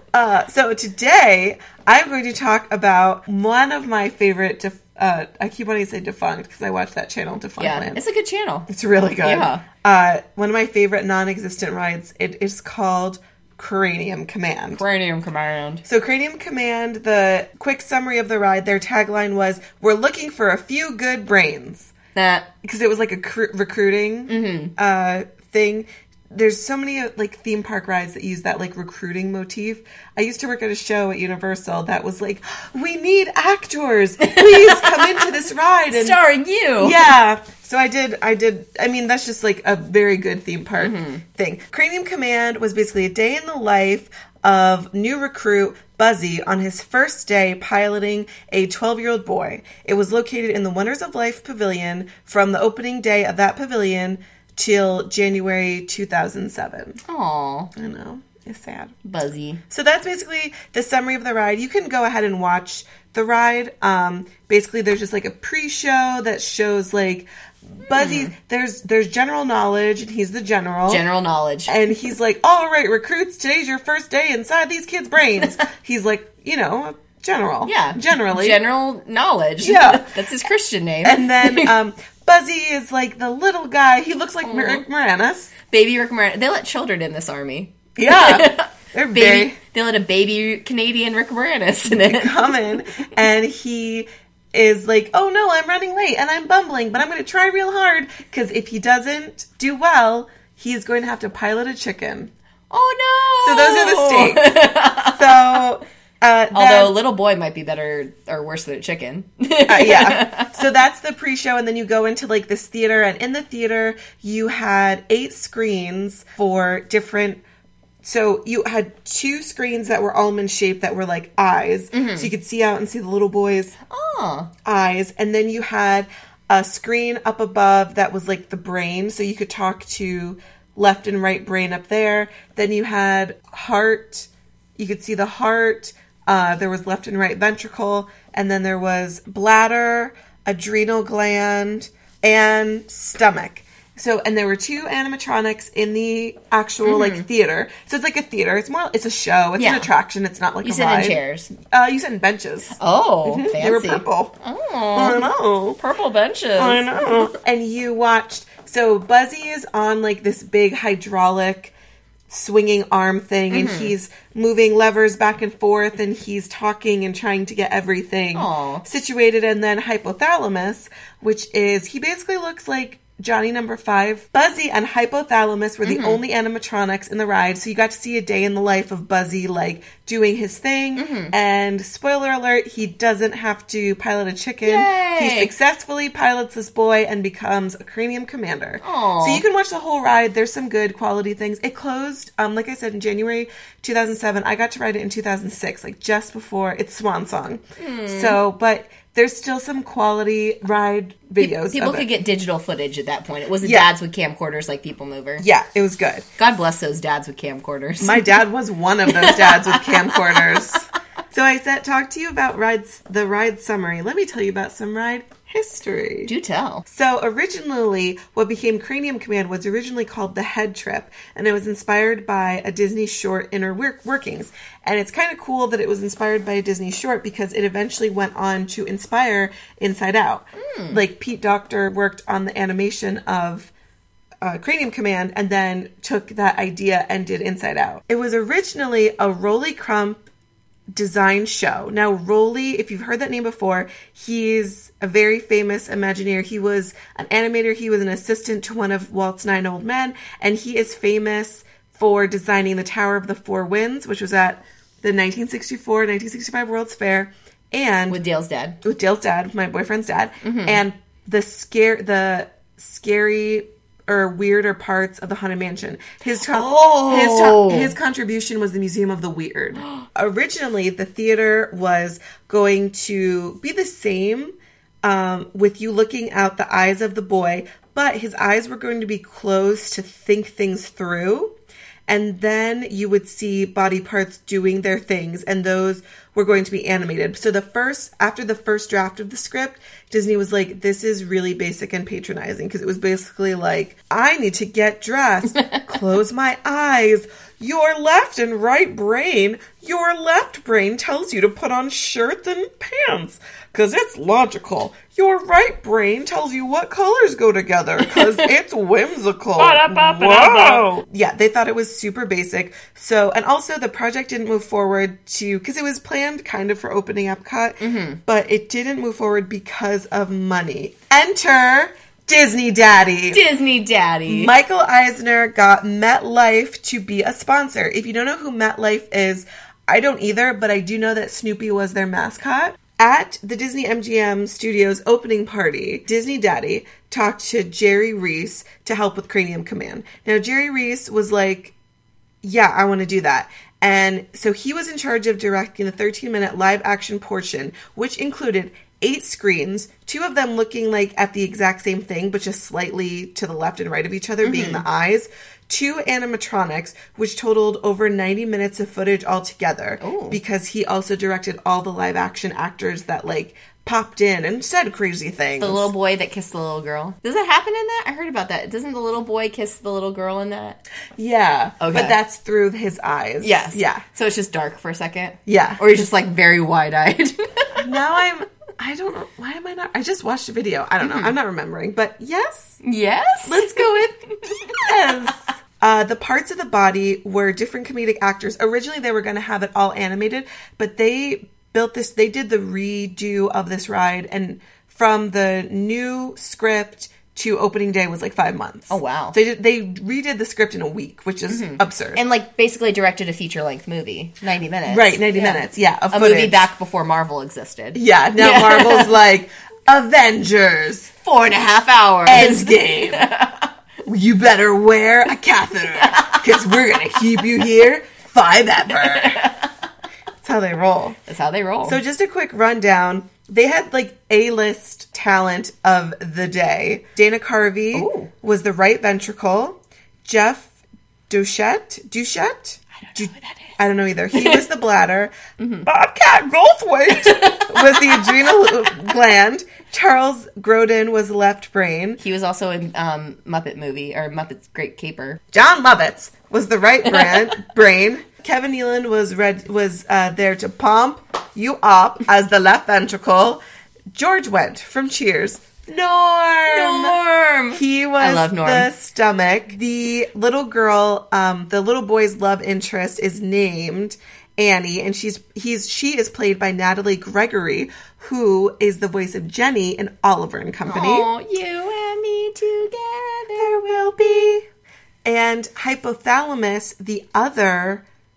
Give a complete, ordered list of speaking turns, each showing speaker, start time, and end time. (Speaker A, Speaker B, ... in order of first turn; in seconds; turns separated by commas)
Speaker A: 0.1-8.0, Speaker B: 7.6-8.7, Speaker A: 8.7-14.8, Speaker B: 9.2-9.6, Speaker B: 14.7-15.8, Speaker A: 15.8-21.9, Speaker B: 22.1-22.5, Speaker A: 22.6-36.2, Speaker B: 24.3-24.7, Speaker B: 34.2-35.3, Speaker B: 35.9-37.0, Speaker A: 36.8-57.0, Speaker B: 40.8-41.2, Speaker B: 57.1-57.7, Speaker A: 57.7-59.0, Speaker B: 59.0-59.6, Speaker A: 59.7-71.0, Speaker B: 67.9-68.3, Speaker B: 70.9-71.7, Speaker A: 71.7-78.6, Speaker B: 77.7-81.7, Speaker A: 79.6-80.2, Speaker A: 81.0-85.5, Speaker B: 84.4-84.8, Speaker B: 85.7-92.5, Speaker A: 88.0-89.6, Speaker A: 91.8-102.3, Speaker B: 102.7-105.6, Speaker A: 103.4-107.0, Speaker B: 106.5-110.5, Speaker A: 109.7-117.4, Speaker A: 118.0-123.8, Speaker B: 121.9-122.3, Speaker B: 123.9-124.5, Speaker A: 124.6-154.3, Speaker B: 146.8-147.2, Speaker B: 149.6-149.9, Speaker B: 150.6-151.5, Speaker B: 152.8-157.3, Speaker A: 154.9-155.8, Speaker A: 156.6-161.7, Speaker A: 162.3-202.1, Speaker B: 163.5-163.9, Speaker B: 168.3-168.8, Speaker B: 175.8-176.2, Speaker B: 180.9-181.3, Speaker B: 184.6-185.5, Speaker B: 188.8-189.4, Speaker B: 197.8-198.4, Speaker B: 201.4-205.4, Speaker A: 203.6-203.9, Speaker A: 205.4-206.2, Speaker B: 206.4-208.3, Speaker A: 208.0-216.3, Speaker B: 209.1-210.8, Speaker B: 216.2-216.8, Speaker A: 216.8-233.7, Speaker B: 230.6-231.0, Speaker A: 234.4-240.2, Speaker A: 240.9-258.2, Speaker B: 258.1-258.8, Speaker A: 258.8-281.5, Speaker B: 260.4-260.8, Speaker B: 266.4-267.9, Speaker A: 282.1-323.4, Speaker B: 308.0-308.4, Speaker B: 309.6-310.8, Speaker B: 317.8-318.2, Speaker B: 323.3-324.5, Speaker A: 324.2-341.7, Speaker A: 342.4-365.9, Speaker B: 354.4-354.8, Speaker B: 360.0-360.4, Speaker B: 365.6-370.8, Speaker A: 371.1-374.0, Speaker B: 371.8-372.1, Speaker B: 373.4-377.8, Speaker A: 375.5-375.8, Speaker A: 377.8-382.8, Speaker B: 381.0-381.3, Speaker B: 382.8-385.3, Speaker A: 383.4-384.2, Speaker A: 384.7-402.2, Speaker B: 398.9-399.4, Speaker B: 401.5-409.1, Speaker A: 404.9-406.7, Speaker A: 407.9-411.1, Speaker B: 411.2-413.7, Speaker A: 412.2-413.3, Speaker A: 414.0-419.5, Speaker B: 416.1-416.4, Speaker B: 419.0-419.7, Speaker A: 420.4-421.2, Speaker B: 421.2-422.0, Speaker A: 421.8-430.7, Speaker B: 427.9-428.3, Speaker A: 431.3-435.3, Speaker B: 433.0-433.7, Speaker B: 434.3-434.6, Speaker B: 435.6-435.9, Speaker A: 435.9-442.2, Speaker B: 437.2-438.2, Speaker B: 442.2-445.4, Speaker A: 445.5-453.6, Speaker A: 454.1-457.2, Speaker B: 456.7-458.9, Speaker A: 457.7-471.3, Speaker B: 470.9-473.7, Speaker A: 473.6-474.6, Speaker A: 475.2-478.0